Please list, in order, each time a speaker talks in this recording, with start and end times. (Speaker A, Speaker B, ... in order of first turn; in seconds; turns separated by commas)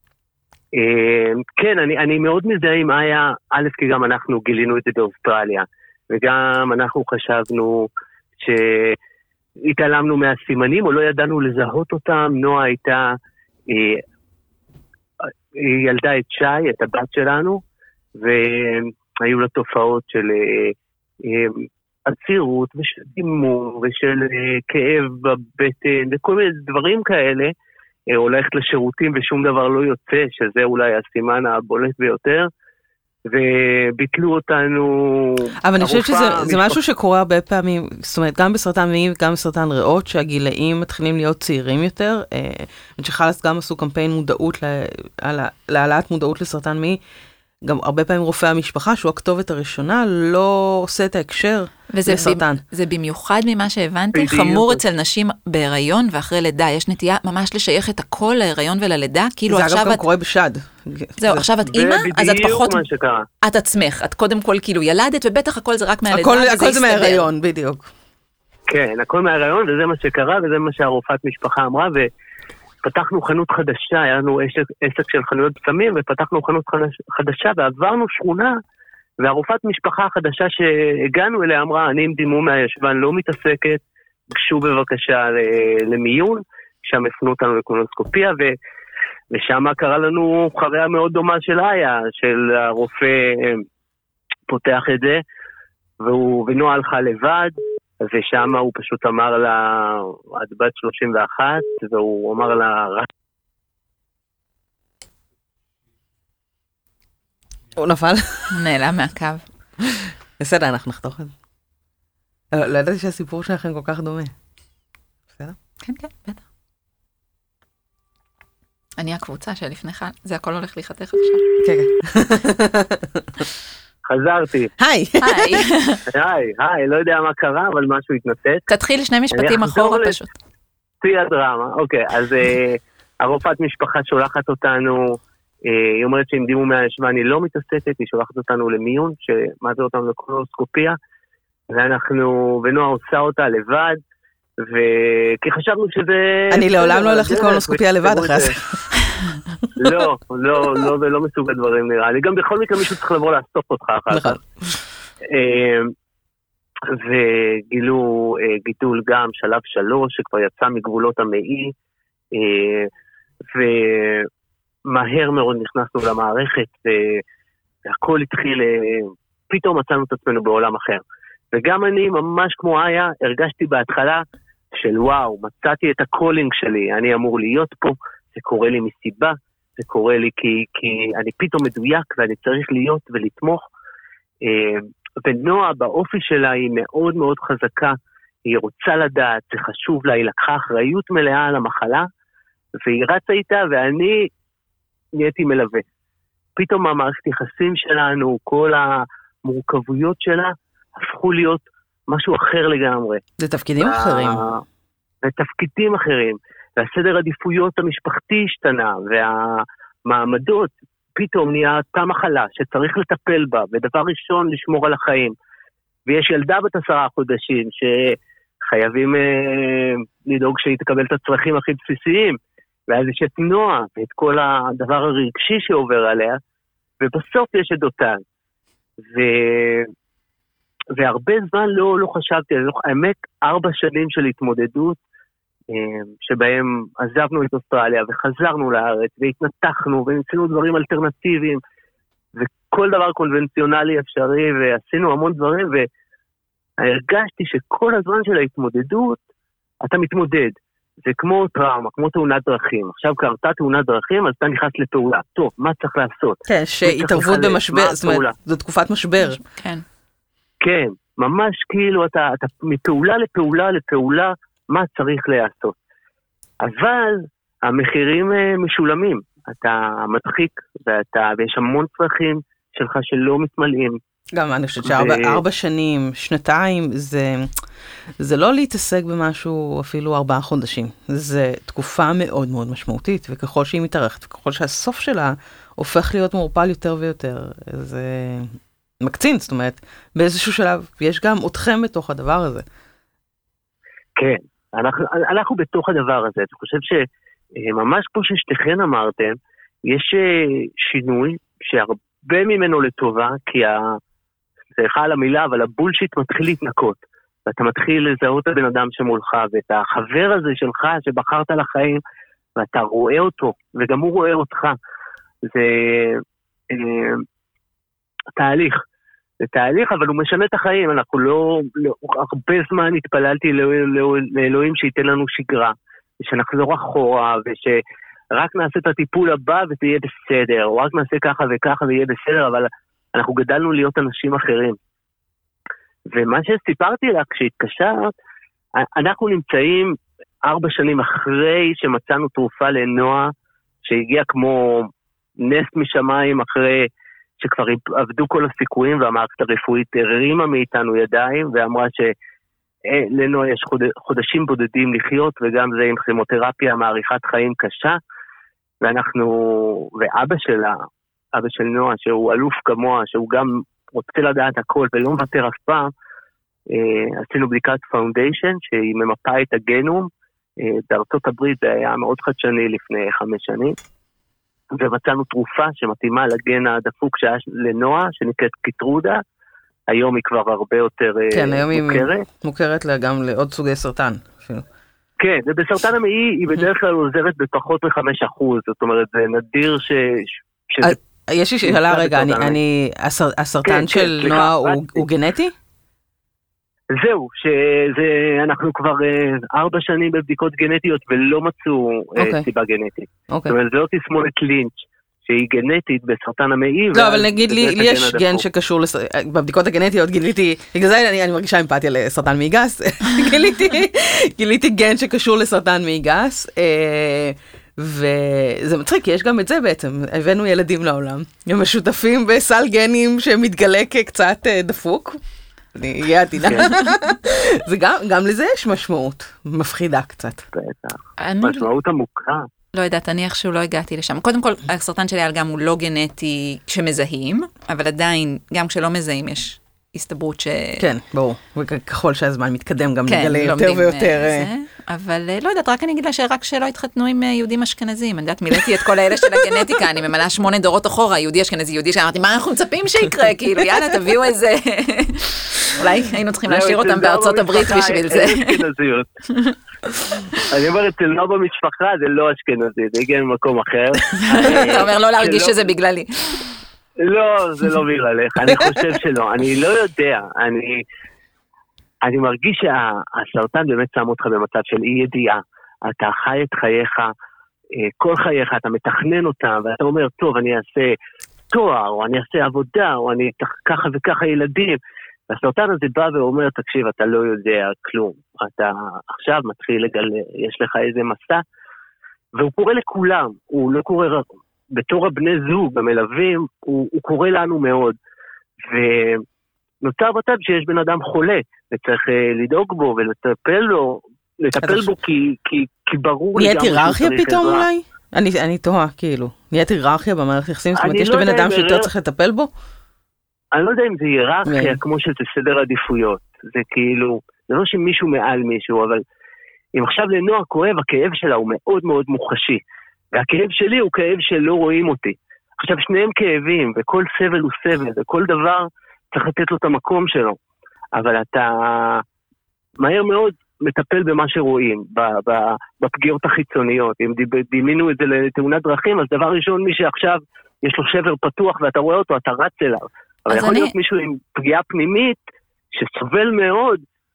Speaker A: 0.7-9.0, Speaker A: 9.7-13.2, Speaker A: 13.7-14.0, Speaker A: 15.6-17.6, Speaker A: 18.2-27.5, Speaker A: 28.1-32.5, Speaker A: 33.3-36.8, Speaker B: 35.6-47.0, Speaker B: 47.6-52.6, Speaker C: 51.9-60.0, Speaker A: 54.1-54.8, Speaker B: 59.5-61.5, Speaker C: 61.2-62.8, Speaker A: 61.6-63.2, Speaker C: 63.4-67.3, Speaker B: 66.1-67.9, Speaker A: 68.7-72.1, Speaker A: 72.8-78.5, Speaker A: 79.2-83.8, Speaker A: 84.3-88.5, Speaker A: 89.3-93.7, Speaker A: 94.5-95.2, Speaker A: 96.0-103.1, Speaker B: 107.8-108.6, Speaker C: 108.5-109.5, Speaker B: 110.4-111.3, Speaker B: 112.5-114.3, Speaker C: 115.8-116.4, Speaker C: 119.0-121.5, Speaker B: 121.6-123.4, Speaker A: 124.1-124.7, Speaker B: 124.8-125.7, Speaker C: 125.2-126.0, Speaker A: 126.1-128.6, Speaker C: 128.7-130.3, Speaker A: 129.3-130.2, Speaker A: 131.0-141.0, Speaker A: 141.7-144.0, Speaker A: 144.6-148.5, Speaker B: 146.5-148.8, Speaker B: 149.6-149.9, Speaker A: 149.8-154.4, Speaker B: 154.1-154.4, Speaker A: 155.3-155.9, Speaker A: 156.9-161.7, Speaker A: 162.3-162.9, Speaker A: 163.5-164.3, Speaker A: 164.9-167.2, Speaker A: 167.9-174.2, Speaker A: 174.7-183.7, Speaker A: 184.4-192.1, Speaker A: 192.8-194.3, Speaker A: 195.2-195.8, Speaker A: 196.6-203.2, Speaker B: 203.4-204.4, Speaker A: 203.8-204.6, Speaker A: 205.2-215.3, Speaker A: 216.1-222.4, Speaker A: 222.9-226.4, Speaker A: 227.0-228.2, Speaker A: 229.1-229.9, Speaker A: 230.9-235.0, Speaker A: 235.7-241.6, Speaker A: 242.3-245.9, Speaker A: 246.8-249.2, Speaker A: 249.8-258.3, Speaker B: 256.5-259.4, Speaker C: 259.2-259.8, Speaker A: 260.6-265.8, Speaker A: 266.6-274.0, Speaker B: 274.3-277.5, Speaker A: 274.8-275.4, Speaker B: 278.2-292.6, Speaker A: 294.2-297.1, Speaker A: 297.6-304.0, Speaker A: 304.8-312.0, Speaker A: 312.6-314.8, Speaker A: 315.5-317.2, Speaker A: 318.4-318.8, Speaker A: 319.4-327.8, Speaker A: 328.3-334.8, Speaker A: 336.1-338.1, Speaker A: 338.8-343.3, Speaker A: 343.9-344.9, Speaker A: 345.4-346.9, Speaker A: 347.4-352.1, Speaker A: 352.9-358.0, Speaker A: 358.8-360.8, Speaker A: 361.3-365.9, Speaker A: 366.7-373.8, Speaker A: 374.7-379.2, Speaker A: 379.9-382.2, Speaker B: 381.3-384.6, Speaker A: 385.2-391.0, Speaker B: 390.8-395.5, Speaker A: 391.6-392.6, Speaker A: 393.6-395.0, Speaker A: 396.9-408.4, Speaker B: 402.2-402.5, Speaker B: 403.3-403.6, Speaker B: 406.9-425.2, Speaker B: 425.8-430.5, Speaker A: 426.4-426.8, Speaker A: 430.5-432.5, Speaker C: 431.2-431.7, Speaker C: 432.7-440.8, Speaker B: 440.8-444.5, Speaker C: 443.1-458.6, Speaker B: 449.4-449.7, Speaker A: 456.5-459.1, Speaker A: 460.5-465.6, Speaker C: 464.3-466.4, Speaker A: 467.0-470.8, Speaker A: 472.0-477.1, Speaker A: 477.8-480.9, Speaker A: 481.5-484.8, Speaker A: 485.3-491.4, Speaker A: 492.4-498.0, Speaker A: 498.7-499.2, Speaker A: 499.8-507.6, Speaker B: 504.6-504.9, Speaker B: 506.4-512.5, Speaker A: 510.8-511.9, Speaker A: 513.5-519.0, Speaker B: 514.5-514.8, Speaker A: 519.8-522.6, Speaker A: 523.1-530.4, Speaker A: 531.0-532.0, Speaker A: 532.8-545.2, Speaker C: 543.3-543.7, Speaker A: 545.7-546.8